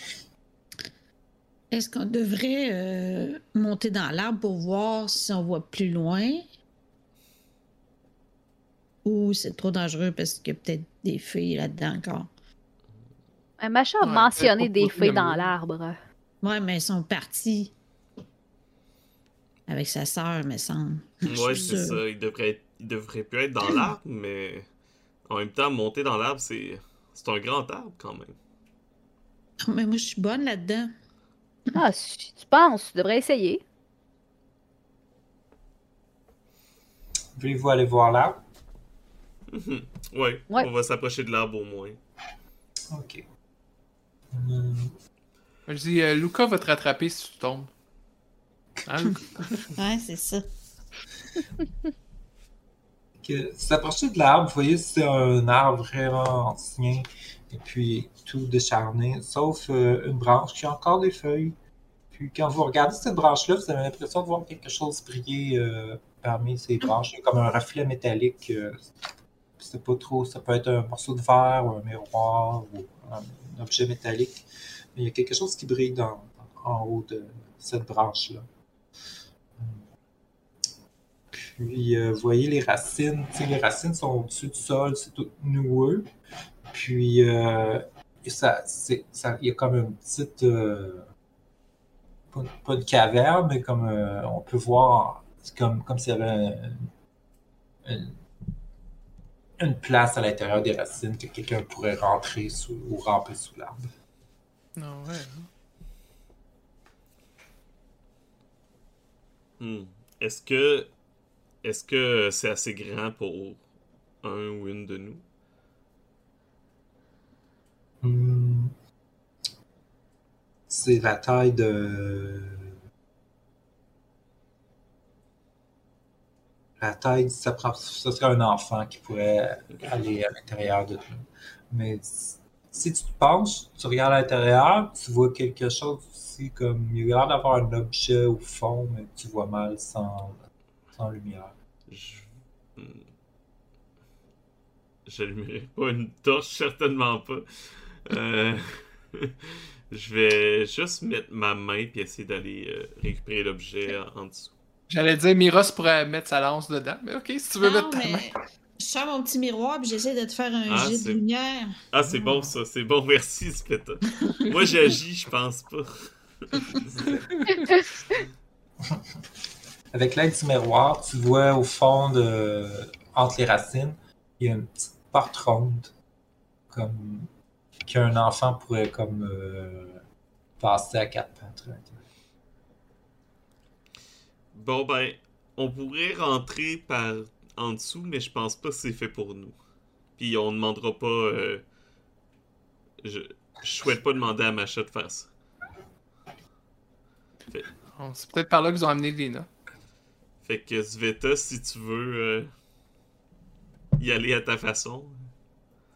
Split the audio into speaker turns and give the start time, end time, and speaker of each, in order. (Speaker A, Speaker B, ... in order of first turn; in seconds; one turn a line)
Speaker A: 1.7-6.5
Speaker A: 9.1-12.3
Speaker B: 13.6-16.0
Speaker C: 14.0-15.5
Speaker A: 16.4-17.7
Speaker A: 19.7-22.0
Speaker D: 21.3-24.7
Speaker B: 21.5-21.7
Speaker D: 25.3-28.4
Speaker A: 29.7-30.9
Speaker B: 31.7-33.6
Speaker E: 37.4-38.4
Speaker D: 39.5-42.0
Speaker E: 42.9-43.3
Speaker E: 44.3-45.0
Speaker C: 45.7-47.7
Speaker C: 48.9-49.7
Speaker A: 49.8-50.4
Speaker E: 53.2-61.6
Speaker E: 62.1-68.9
Speaker E: 69.6-78.5
Speaker E: 79.6-79.8
Speaker E: 81.3-86.1
Speaker E: 86.7-91.1
Speaker E: 92.3-96.9
Speaker E: 97.8-98.2
Speaker E: 99.6-103.9
Speaker C: 104.8-105.5
Speaker D: 109.6-110.9
Speaker D: 111.6-113.6
Speaker D: 114.2-115.2
Speaker E: 118.0-118.8
Speaker E: 120.7-122.8
Speaker E: 126.8-140.4
Speaker E: 140.9-141.5
Speaker D: 141.9-143.1
Speaker D: 145.1-149.3
Speaker D: 149.9-154.5
Speaker C: 154.9-158.3
Speaker A: 157.6-161.7
Speaker D: 160.7-161.2
Speaker D: 161.9-167.1
Speaker C: 167.3-167.7
Speaker E: 168.8-169.2
Speaker E: 169.9-175.9
Speaker E: 176.7-177.3
Speaker E: 177.8-180.0
Speaker E: 180.6-182.0
Speaker D: 184.5-189.6
Speaker D: 190.2-191.6
Speaker D: 193.0-195.3
Speaker C: 198.0-199.5
Speaker D: 200.4-202.5
Speaker D: 204.0-205.2